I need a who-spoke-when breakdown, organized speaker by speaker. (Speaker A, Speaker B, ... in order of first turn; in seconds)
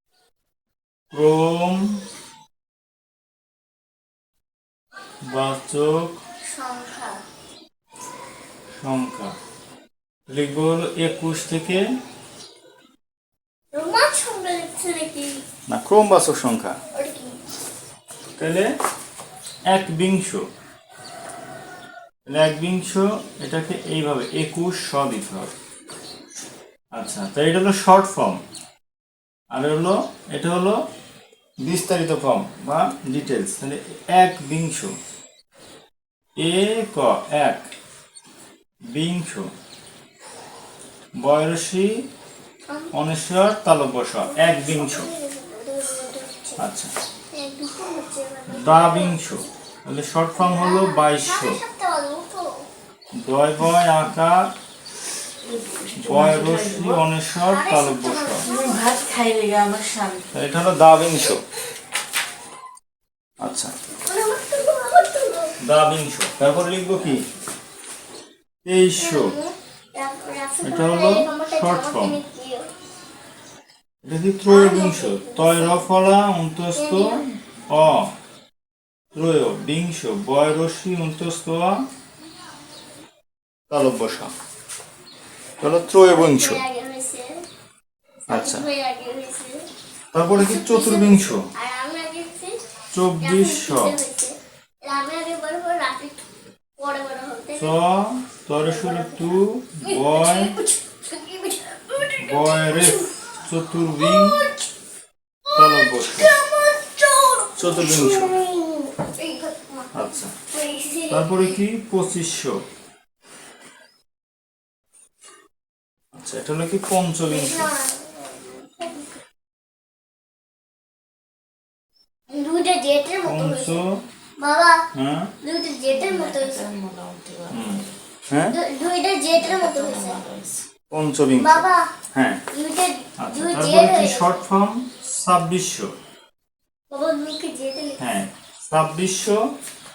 Speaker A: 1.1-2.0, 5.3-6.2, 8.8-9.3, 10.3-11.8, 15.7-16.8, 18.4-18.7, 19.7-20.5, 22.3-25.5, 26.9-28.4, 29.5-30.8, 31.6-35.0, 36.4-37.6, 38.9-39.5, 41.2-42.0, 42.9-45.1, 46.6-46.9, 48.5-51.6, 53.2-54.5, 56.0-58.5, 60.3-61.4, 63.4-63.7, 65.6-67.2, 68.6-69.3, 70.6-72.2, 74.0-78.1, 79.1-81.8, 83.7-84.3, 85.6-86.6, 88.3-88.6, 90.1-91.5, 92.9-94.0, 97.5-100.5, 102.2-104.4, 105.5-106.3, 107.5-108.4, 109.9-110.3, 111.1-112.6, 116.1-117.7, 123.2-124.0, 124.9-125.3, 127.5-128.6, 130.9-132.4, 133.2-135.9, 138.0-139.5
Speaker B: 6.5-7.2, 13.7-15.4, 16.9-17.4, 44.2-46.6, 47.3-49.4, 50.3-52.7, 57.4-59.0, 64.0-65.6, 69.0-72.7, 74.5-75.9, 76.7-77.2, 86.1-87.4, 88.3-89.7, 90.3-92.6, 93.2-96.2, 96.8-97.7, 98.6-103.3, 103.9-104.5, 105.5-109.9, 110.5-111.6, 117.3-119.1, 122.3-123.8, 124.4-124.8, 125.4-126.7, 128.5-130.2, 131.4-131.9, 132.5-134.4, 136.9-138.1
Speaker C: 55.4-57.0, 58.4-60.3, 125.9-127.9, 129.3-130.6